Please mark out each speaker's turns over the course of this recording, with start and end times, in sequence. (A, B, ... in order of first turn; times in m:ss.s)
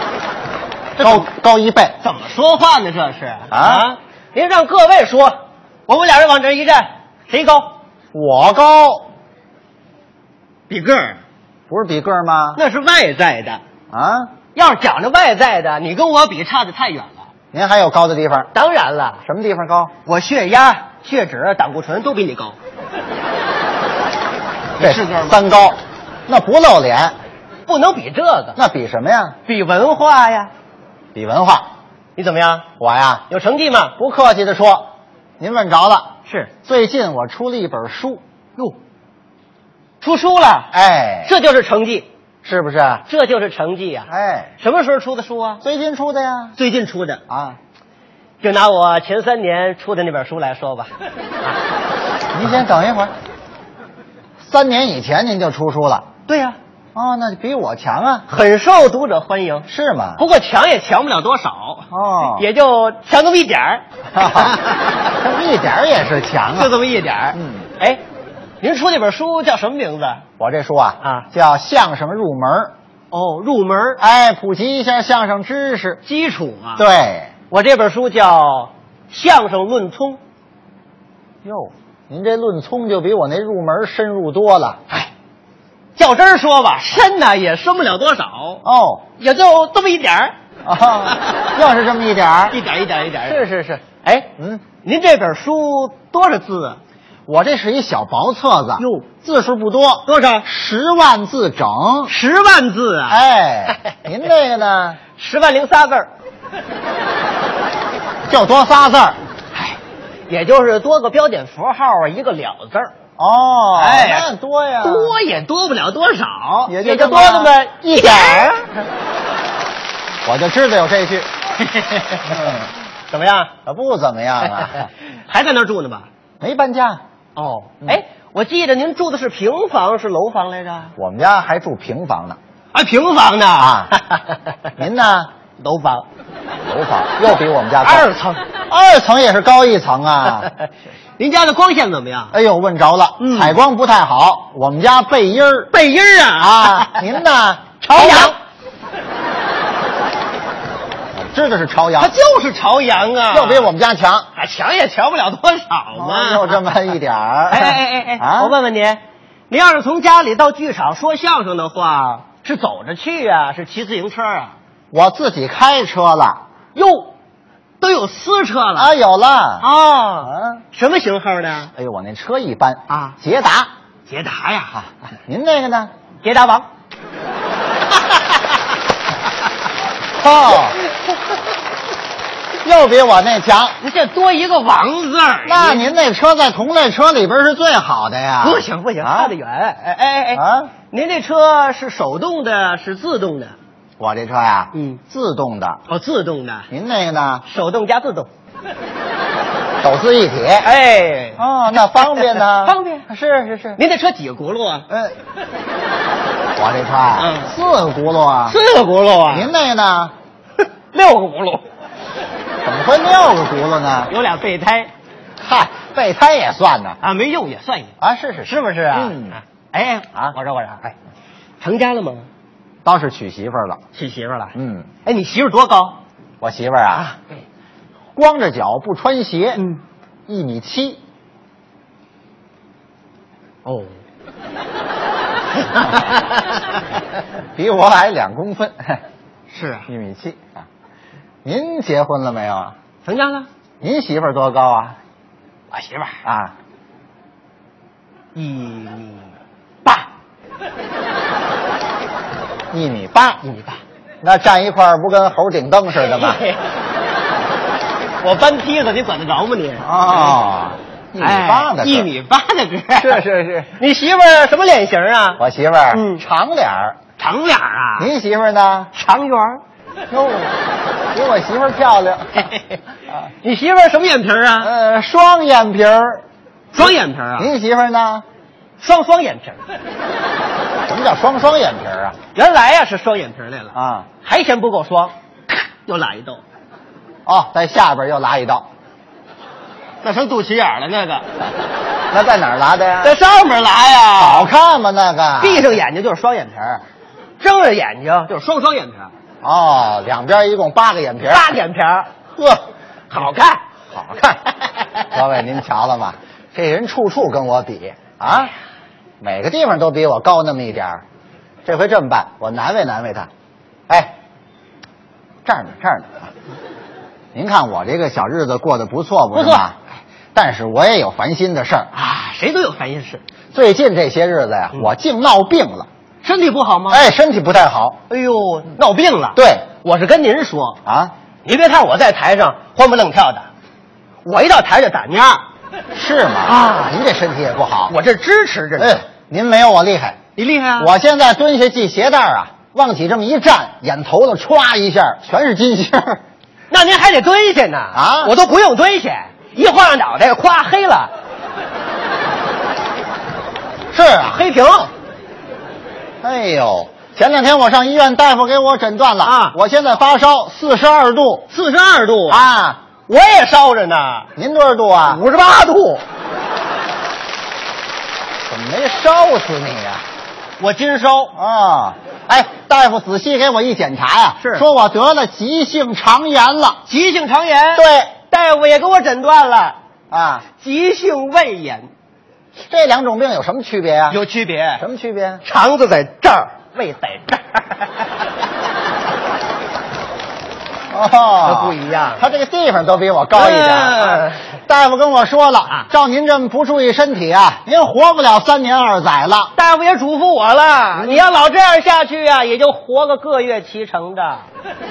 0:01.0-0:01.2 A
0:01.0-0:02.0 B
0:02.0-0:05.4 A
0:03.5-0:03.9 B
0:05.9-0:07.8 A
0:08.1-0:09.1 B
0:10.7-0:11.2 A
0:11.7-0:12.6 B
0:12.5-0:13.6 A
0:13.9-0:14.3 B
0:14.5-0:17.3 A
0:17.5-0:18.5 B
0:18.5-0:19.2 A
0:19.2-0:19.9 B
0:20.0-0:22.6 A
0:24.8-0:25.6 A
0:24.8-0:27.1 B
0:27.7-0:28.6 A
0:28.6-0:29.4 B
0:29.5-0:30.5 A
0:31.1-0:31.6 B
0:32.2-0:32.7 A
0:32.8-0:33.2 B
0:33.3-0:34.0 A
0:34.0-0:38.2 B
0:36.2-0:36.5 A
0:40.0-0:42.1 A
0:40.7-0:41.3 B
0:42.4-0:43.0 B
0:43.0-0:45.6 A
0:44.1-0:44.5 B
0:45.6-0:46.6 B
0:46.6-0:47.2 A
0:47.3-0:47.6 B
0:48.4-0:50.9 A
0:52.3-0:53.1 B
0:54.4-0:56.1 B
0:56.3-0:56.6 A
0:56.9-0:58.3 B
0:58.3-1:03.8 A
0:59.7-1:00.2 B
1:01.9-1:02.4 B
1:04.1-1:06.7 B
1:04.4-1:04.7 A
1:06.5-1:08.0 A
1:07.3-1:07.7 B
1:08.6-1:10.2 A
1:10.4-1:12.7 B
1:11.0-1:11.3 A
1:13.1-1:14.0 A
1:14.0-1:16.0 B
1:16.0-1:16.8 A
1:16.8-1:17.3 B
1:17.5-1:20.2 A
1:21.4-1:24.8 B
1:26.0-1:28.6 A
1:28.6-1:29.0 B
1:29.2-1:30.3 A
1:30.6-1:32.6 B
1:32.5-1:36.8 A
1:33.2-1:33.8 B
1:34.4-1:34.6 B
1:37.3-1:42.1 B
1:38.8-1:39.1 A
1:40.0-1:40.5 A
1:42.0-1:43.2 A
1:43.1-1:45.0 B
1:45.2-1:46.1 A
1:48.3-1:49.2 B
1:50.3-1:52.9 A
1:53.2-1:55.1 B
1:53.7-1:54.3 A
1:54.8-1:58.7 A
1:56.6-1:58.5 B
2:00.2-2:01.3 B
2:01.6-2:02.4 A
2:02.2-2:02.7 B
2:03.1-2:03.5 A
2:03.6-2:04.9 B
2:04.4-2:06.1 A
2:06.4-2:07.0 B
2:07.4-2:10.9 A
2:11.0-2:12.4 B
2:12.7-2:14.4 A
2:13.6-2:13.9 B
2:14.8-2:15.3 B
2:15.6-2:16.0 A
2:16.6-2:18.1 B
2:17.2-2:18.4 A
2:18.7-2:20.5 B
2:21.2-2:22.4 A
2:22.3-2:25.7 B
2:23.2-2:23.6 A
2:25.7-2:27.1 A
2:26.4-2:28.4 B
2:27.8-2:28.4 A
2:31.3-2:32.1 B
2:32.0-2:33.7 A
2:33.3-2:34.3 B
2:34.3-2:36.6 A
2:35.9-2:38.6 B
2:37.5-2:44.6 A
2:44.9-2:46.4 B
2:46.7-2:47.1 A
2:47.8-2:48.9 A
2:48.8-2:49.6 B
2:49.6-2:51.7 A
2:50.2-2:50.6 B
2:51.7-2:53.7 B
2:52.9-2:53.2 A
2:54.1-2:54.9 A
2:54.8-2:55.9 B
2:56.2-2:56.7 A
3:00.2-3:00.8 B
3:02.6-3:03.8 B
3:03.8-3:06.0 A
3:05.4-3:09.3 B
3:08.4-3:13.5 A
3:10.3-3:10.7 B
3:14.0-3:15.8 B
3:14.7-3:15.0 A
3:15.9-3:16.7 A
3:16.7-3:17.4 B
3:17.4-3:18.3 A
3:19.8-3:20.7 B
3:20.6-3:23.1 A
3:21.4-3:23.8 B
3:23.8-3:24.9 A
3:24.9-3:25.1 B
3:26.6-3:28.6 B
3:27.2-3:27.5 A
3:28.4-3:29.5 A
3:29.3-3:30.1 B
3:30.9-3:31.6 A
3:32.6-3:34.1 B
3:34.1-3:34.9 A
3:35.4-3:37.0 B
3:37.0-3:40.9 A
3:38.0-3:39.4 B
3:41.6-3:42.3 A
3:42.8-3:43.8 B
3:43.9-3:46.0 A
3:44.6-3:44.9 B
3:46.4-3:47.1 B
3:46.9-3:47.2 A
3:48.1-3:49.6 B
3:50.3-3:51.0 B
3:53.6-3:54.0 A
3:55.6-3:56.4 A
3:57.5-3:59.0 B
3:59.5-3:59.9 A
3:59.9-4:00.6 B
4:01.4-4:02.7 B
4:03.0-4:03.5 A
4:03.8-4:05.0 B
4:05.7-4:06.2 A
4:06.2-4:06.5 B
4:08.3-4:09.3 A
4:12.7-4:13.4 B
4:13.4-4:13.8 A
4:14.2-4:16.4 B
4:15.9-4:16.6 A
4:18.2-4:20.4 A
4:19.8-4:22.1 B
4:21.2-4:23.2 A
4:23.0-4:23.8 B
4:23.8-4:26.2 A
4:25.4-4:27.0 B
4:27.2-4:28.1 A
4:28.0-4:28.9 B
4:28.9-4:29.6 A
4:30.1-4:30.6 B
4:31.1-4:32.5 B
4:33.4-4:34.7 A
4:34.6-4:36.2 B
4:36.7-4:37.5 A
4:36.8-4:38.2 B
4:38.8-4:39.6 A
4:40.9-4:42.2 B
4:42.3-4:46.4 A
4:43.7-4:44.1 B
4:47.2-4:48.6 B
4:50.0-4:51.3 A
4:52.1-4:53.1 B
4:53.0-4:54.5 A
4:54.2-4:55.7 B
4:55.4-4:56.8 A
4:57.4-4:59.1 A
4:59.4-5:01.5 B
5:01.2-5:02.1 A
5:03.1-5:03.6 A
5:03.9-5:04.4 B
5:05.1-5:08.5 B
5:09.2-5:11.0 B
5:11.6-5:13.3 B
5:13.9-5:14.1 B
5:15.4-5:16.3 B
5:17.3-5:19.8 B
5:19.3-5:19.7 A
5:20.3-5:21.9 B
5:21.9-5:23.2 A
5:23.5-5:25.9 B
5:26.2-5:27.1 A
5:26.9-5:28.0 B
5:28.1-5:30.8 A
5:29.3-5:29.7 B
5:30.8-5:31.1 B
5:31.4-5:33.5 A
5:34.2-5:35.4 A
5:35.9-5:38.0 B
5:36.4-5:36.9 A
5:37.9-5:39.0 A
5:38.8-5:40.2 B
5:40.4-5:40.9 A
5:40.8-5:46.2 B
5:46.7-5:51.1 A
5:47.9-5:48.4 B
5:53.9-5:54.4 B
5:54.2-5:54.9 A
5:56.2-6:01.5 B
5:59.2-5:59.6 A
6:01.5-6:02.5 A
6:02.3-6:02.8 B
6:03.1-6:04.3 A
6:04.4-6:05.2 B
6:05.1-6:06.0 A
6:08.5-6:10.0 B
6:10.6-6:11.4 A
6:11.3-6:16.8 B
6:14.4-6:14.7 A
6:16.8-6:19.8 A
6:17.7-6:18.1 B
6:20.1-6:20.4 B
6:20.5-6:21.9 A
6:22.7-6:24.2 B
6:24.1-6:24.8 A
6:24.8-6:25.4 B
6:25.4-6:28.1 A
6:30.9-6:39.5 B
6:31.4-6:32.2 A
6:33.3-6:34.4 A
6:39.5-6:44.5 A
6:40.9-6:41.3 B